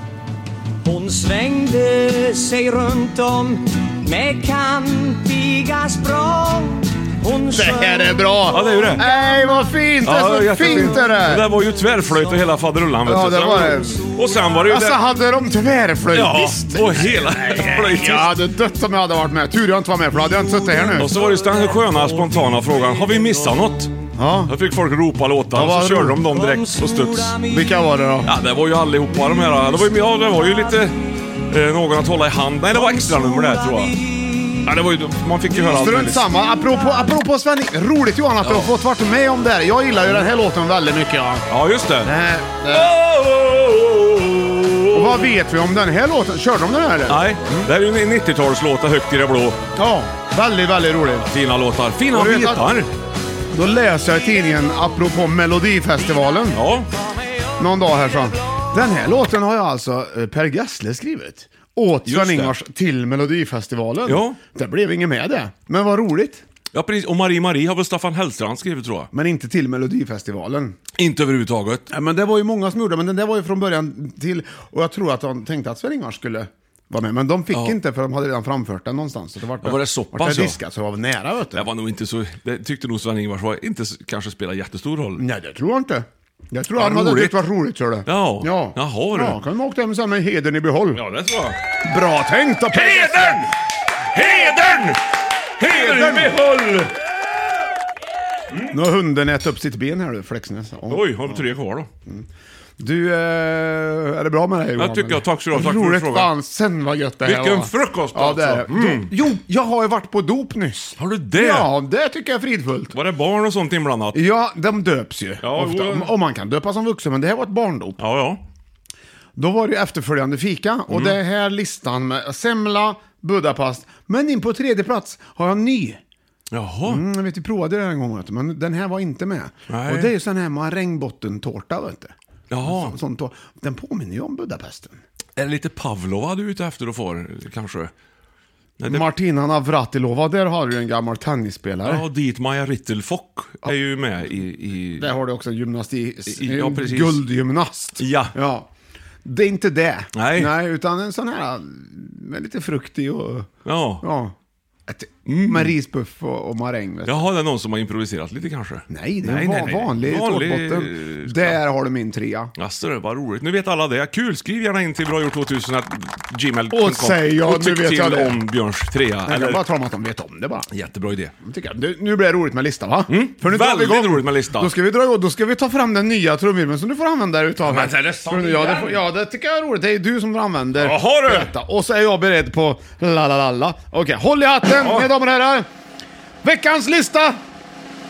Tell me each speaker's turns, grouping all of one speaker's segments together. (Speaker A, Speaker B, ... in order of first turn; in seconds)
Speaker A: 0.8-8.4, 26.3-27.4, 32.7-34.7
Speaker B: 7.5-11.5, 13.1-14.1, 14.7-21.2, 24.2-24.5, 25.5-26.2, 27.4-28.3, 35.5-41.5, 42.0-42.9, 44.9-47.7, 49.8-51.3, 52.1-52.7, 53.5-56.6, 57.6-66.4, 69.1-70.8, 71.9-81.7, 85.2-91.0, 91.8-93.4, 95.6-96.3, 98.7-101.4, 102.8-113.0, 114.1-118.0, 119.4-126.0, 126.9-135.0, 138.8-142.0, 145.0-148.7, 149.2-153.5, 154.0-154.3, 154.9-157.2, 158.9-162.5, 166.7-168.4, 169.3-170.7, 171.4-185.7, 186.4-187.4
Speaker C: 8.5-9.1, 10.0-15.0, 16.1-18.4, 21.0-23.9, 24.5-27.4, 28.3-31.0, 31.5-34.0, 34.6-36.3, 38.4-38.7, 41.5-42.1, 42.7-45.3, 47.1-49.6, 51.3-52.9, 56.5-56.9, 62.0-62.5, 64.1-64.4, 66.7-69.1, 71.0-71.9, 77.5-77.8, 79.6-80.6, 81.5-85.2, 86.8-87.4, 88.1-89.4, 90.9-91.6, 92.7-93.5, 94.1-95.0, 95.6-96.9, 100.9-101.9, 104.8-106.3, 107.2-109.1, 111.0-111.7, 112.9-114.2, 115.4-116.1, 118.0-118.4, 120.9-121.2, 126.5-127.0, 129.7-130.1, 132.5-133.0, 135.4-137.9, 138.8-139.1, 141.8-145.1, 146.3-147.2, 148.0-148.3, 150.2-150.5, 153.7-154.0, 155.3-155.8, 157.1-161.6, 162.6-169.6, 170.7-171.3, 173.1-174.7, 177.6-179.0, 180.8-181.5, 184.8-185.1